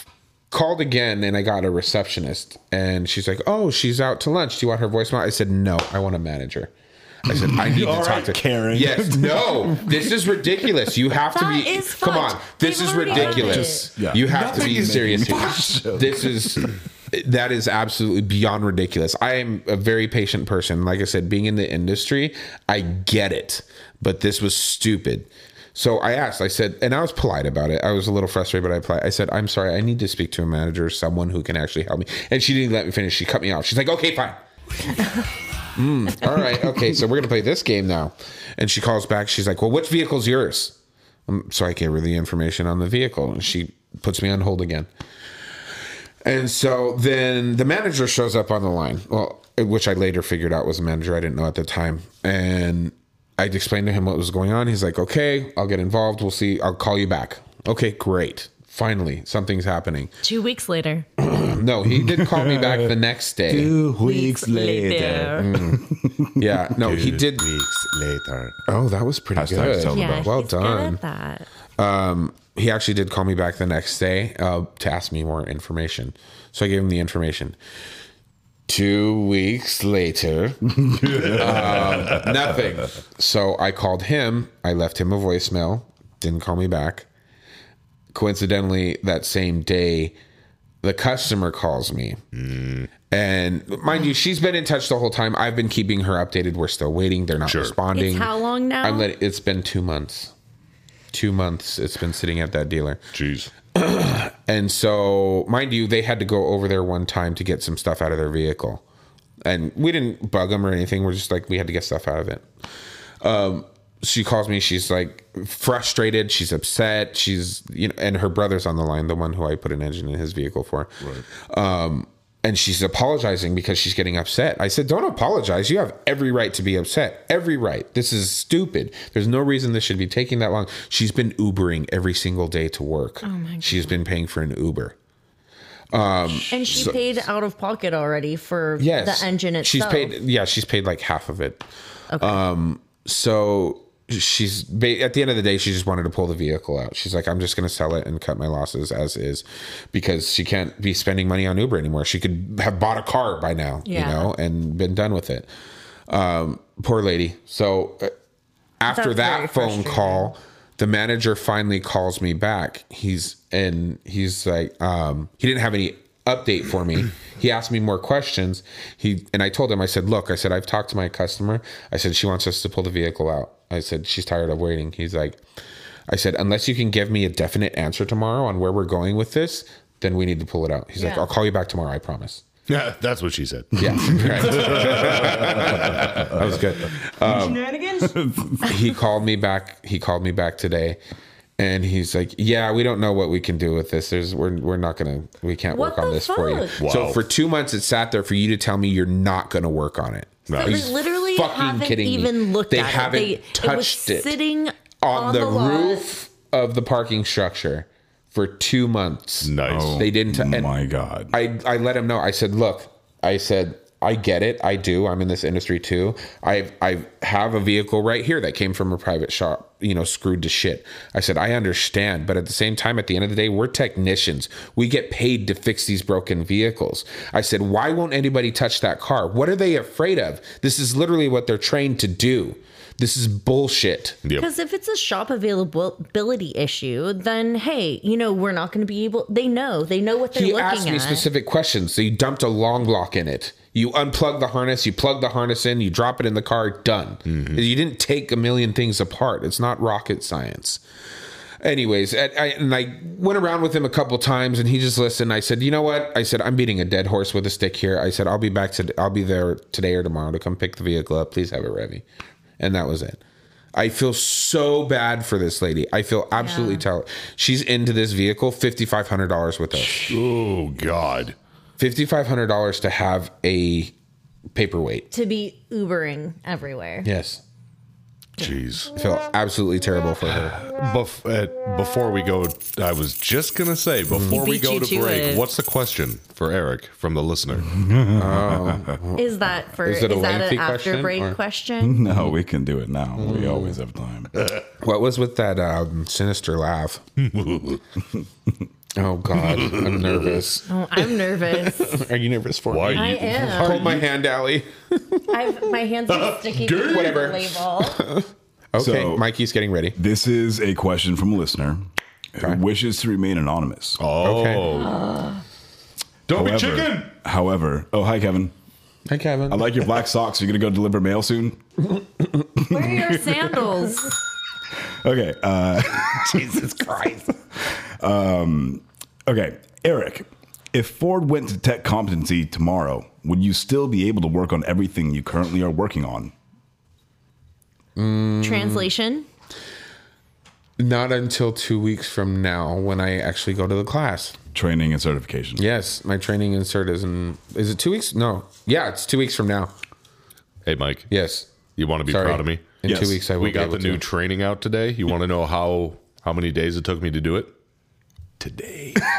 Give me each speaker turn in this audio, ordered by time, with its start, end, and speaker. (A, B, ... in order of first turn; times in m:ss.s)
0:00.5-0:06.7 A
0:07.2-0:34.4 A
0:07.3-0:10.2 B
0:11.3-0:13.9 C
0:13.1-0:16.6 B
0:14.3-0:15.4 D
0:34.9-0:35.2 C
0:35.8-0:40.8 A
0:41.3-0:44.9 A
0:46.2-1:00.2 A
1:00.2-1:01.1 C
1:01.2-1:03.8 A
1:01.9-1:02.9 B
1:03.5-1:07.0 B
1:04.0-1:05.5 C
1:05.2-1:07.5 A
1:06.8-1:08.5 D
1:08.7-1:11.0 A
1:09.4-1:10.3 B
1:09.9-1:11.5 C
1:11.8-1:17.6 A
1:18.7-1:27.1 A
1:20.8-1:22.7 B
1:28.1-1:30.2 A
1:30.8-1:32.2 A
1:32.3-1:32.9 D
1:33.1-1:40.3 A
1:37.5-1:37.8 D
1:37.9-1:39.1 C
1:41.1-1:43.0 A
1:43.1-1:43.5 D
1:43.7-1:48.8 A
1:49.4-1:52.4 A
1:53.2-2:15.0 A
2:13.2-2:14.0 C
2:15.9-2:17.1 A
2:16.5-2:20.1 C
2:18.8-2:21.6 A
2:22.1-2:22.4 C
2:22.2-2:35.5 A
2:33.9-2:34.3 C
2:36.1-2:38.1 A
2:38.8-2:55.4 A
2:38.9-2:40.3 C
2:56.1-3:02.4 A
3:01.0-3:01.3 C
3:02.7-3:06.4 D
3:03.8-3:07.8 A
3:03.9-3:06.4 B
3:07.3-3:08.7 B
3:08.6-3:11.0 A
3:11.6-3:24.4 A
3:15.7-3:16.8 C
3:16.8-3:17.2 D
3:20.5-3:20.9 D
3:20.6-3:26.1 C
3:25.0-3:30.7 A
3:29.4-3:30.0 D
3:29.7-3:31.3 B
3:31.3-3:54.2 A
3:54.4-4:01.3 C
4:00.3-4:10.8 A
4:07.3-4:07.6 D
4:11.6-4:22.0 A
4:22.6-4:23.2 A
4:23.7-4:30.2 A
4:26.4-4:26.9 C
4:29.8-4:31.4 D
4:31.8-4:33.9 A
4:34.5-4:35.1 A
4:35.1-4:37.1 C
4:37.0-4:37.4 A
4:38.4-4:38.9 D
4:39.0-4:40.6 A
4:40.4-4:47.8 D
4:44.3-4:45.4 C
4:47.7-4:49.0 B
4:48.1-4:51.4 A
4:49.2-4:52.0 C
4:51.8-4:54.3 B
4:53.2-4:53.8 A
4:54.8-4:57.0 A
4:57.2-4:57.8 D
4:59.0-5:00.7 A
5:00.7-5:02.0 C
5:01.5-5:05.6 A
5:02.7-5:04.0 D
5:02.9-5:03.8 C
5:05.3-5:08.0 C
5:06.1-5:07.2 D
5:06.7-5:10.0 A
5:08.8-5:09.2 B
5:10.0-5:14.0 B
5:14.0-5:15.0 D
5:14.2-5:14.7 A
5:14.7-5:15.4 C
5:16.3-5:17.1 D
5:16.3-5:18.5 B
5:19.1-5:19.7 A
5:19.5-5:21.6 B
5:22.6-5:24.2 C
5:22.6-5:23.5 B
5:25.0-5:26.7 B
5:26.2-5:27.2 A
5:27.6-5:36.3 B
5:38.0-5:38.9 A
5:38.4-5:39.3 C
5:40.8-5:44.4 A
5:44.5-5:45.6 B
5:45.6-5:49.7 A
5:50.7-5:51.1 D
5:51.1-5:51.5 A
5:51.8-5:52.7 D
5:52.1-5:54.0 A
5:52.8-5:53.2 B
5:53.4-5:57.6 D
5:58.4-5:59.0 D